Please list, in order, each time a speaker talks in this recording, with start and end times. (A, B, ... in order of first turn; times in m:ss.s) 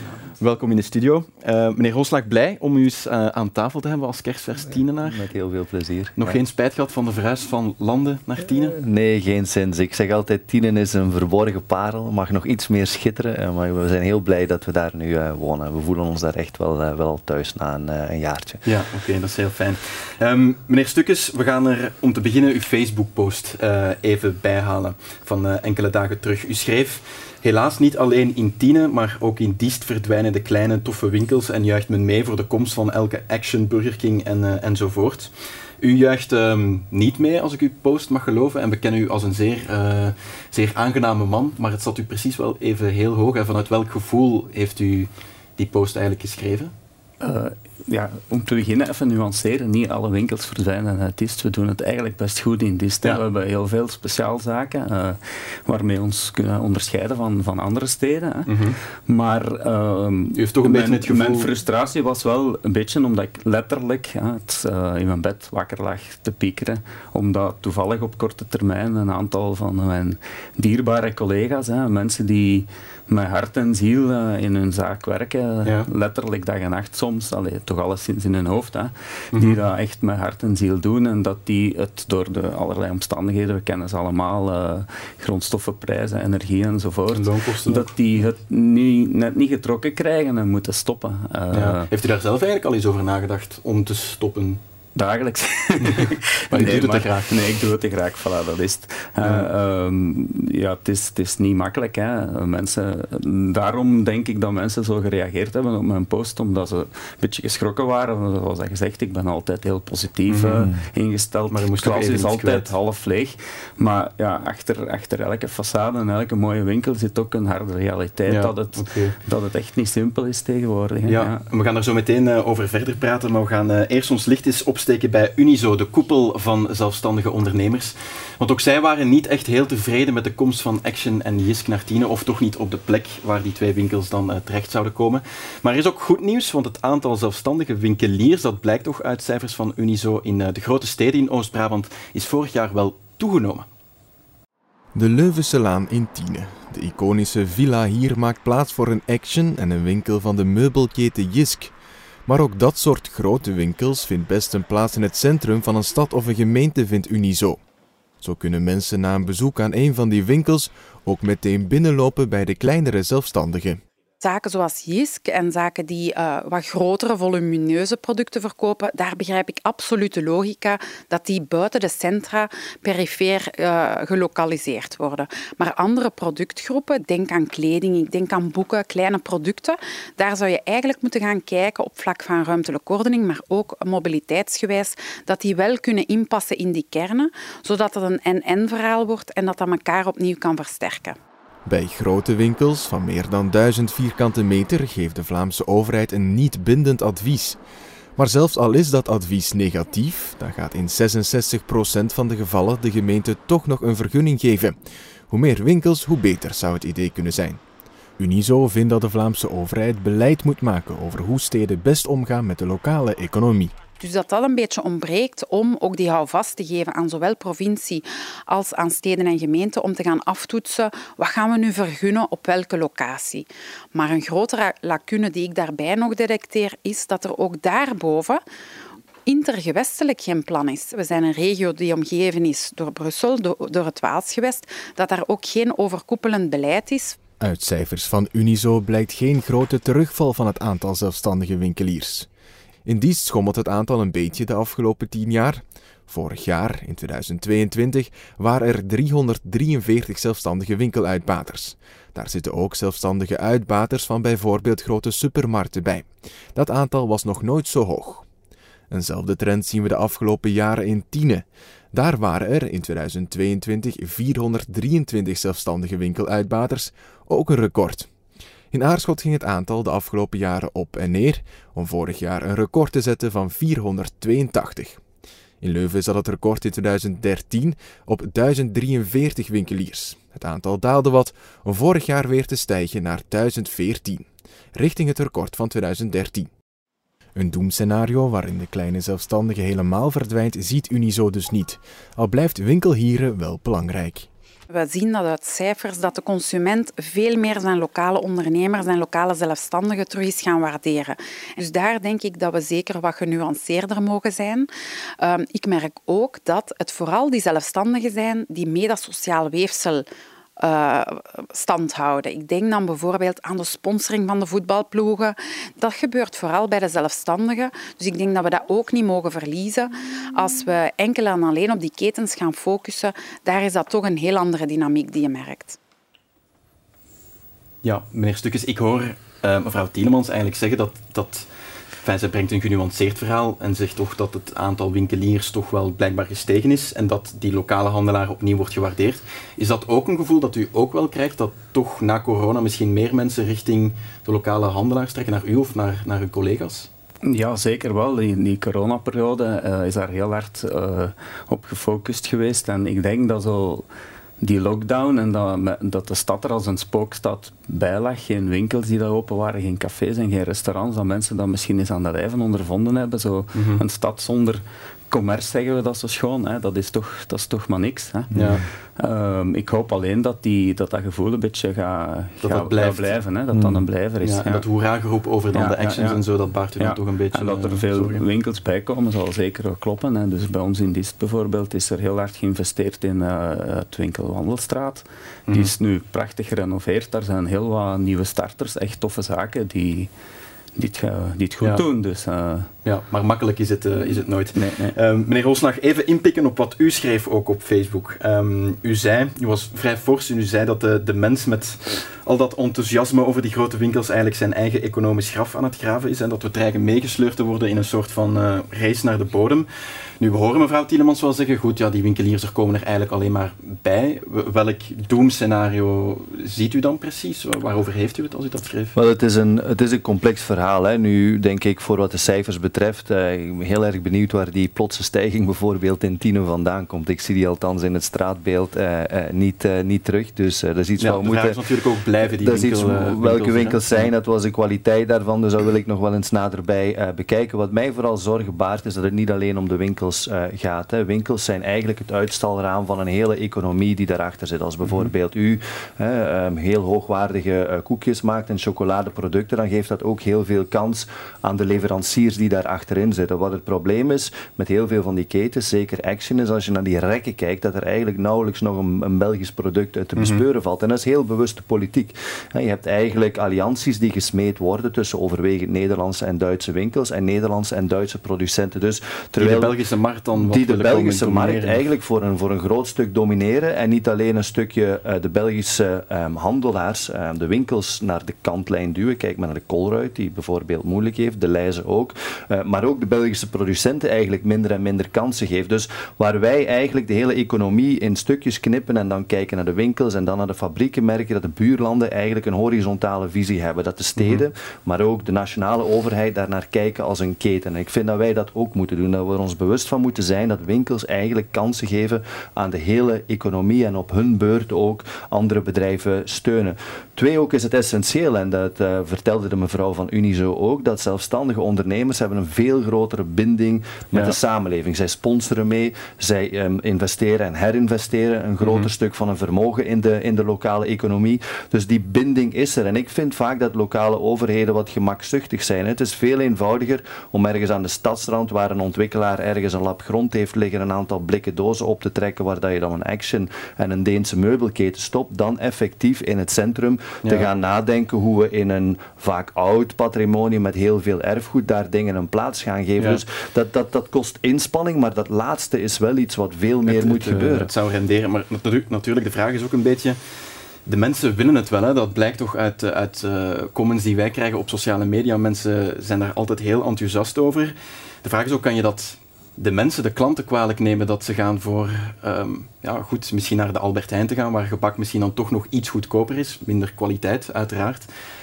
0:00.3-0:05.3 A
0:05.0-0:06.4 B
0:06.2-0:08.8 A
0:08.7-0:18.6 B
0:18.6-0:46.7 A
0:47.2-0:58.5 C
0:58.5-0:58.8 A
0:59.1-1:31.9 C
1:00.4-1:01.5 A
1:19.3-1:19.6 A
1:27.1-1:27.9 A
1:31.5-1:34.6 A
1:35.0-2:01.4 C
1:35.8-1:37.3 A
1:39.2-1:39.5 A
1:50.3-1:50.8 A
1:51.5-1:52.7 A
1:58.3-1:59.2 A
2:01.1-2:23.7 A
2:25.0-2:31.8 D
2:32.3-2:37.6 D
2:38.2-2:43.8 D
2:44.2-3:11.2 E
3:11.7-3:17.6 D
3:18.2-3:24.8 D
3:25.3-3:27.6 D
3:28.2-3:33.7 D
3:34.0-3:48.4 E
3:49.3-3:57.2 E
3:57.4-4:02.3 D
4:02.9-4:18.3 D
4:18.9-4:28.1 D
4:28.7-4:35.0 D
4:35.6-4:46.5 D
4:47.4-4:54.3 D
4:54.7-5:04.7 E
5:05.2-5:10.1 E
5:10.6-5:25.8 E
5:27.8-5:31.5 A
5:32.0-5:46.9 A
5:47.2-5:53.9 C
5:54.4-6:08.3 C
6:03.6-6:03.8 A
6:08.3-6:08.6 A
6:08.3-6:08.6 B
6:09.0-6:14.7 C
6:12.4-6:13.2 A
6:13.6-6:13.8 B
6:14.2-6:18.2 A
6:15.5-6:16.2 C
6:16.8-6:30.1 C
6:30.8-6:32.7 C
6:32.8-6:49.7 A
6:34.6-6:35.0 C
6:50.2-6:59.0 A
6:59.0-7:11.6 B
7:11.0-7:14.1 A
7:12.3-7:49.8 B
7:24.8-7:25.1 A
7:40.2-7:40.4 A
7:49.4-7:51.8 A
7:50.4-9:07.7 B
8:14.2-8:14.4 A
8:38.6-8:38.9 A
8:57.2-8:57.5 A
9:06.9-9:10.2 A
9:10.9-9:28.1 A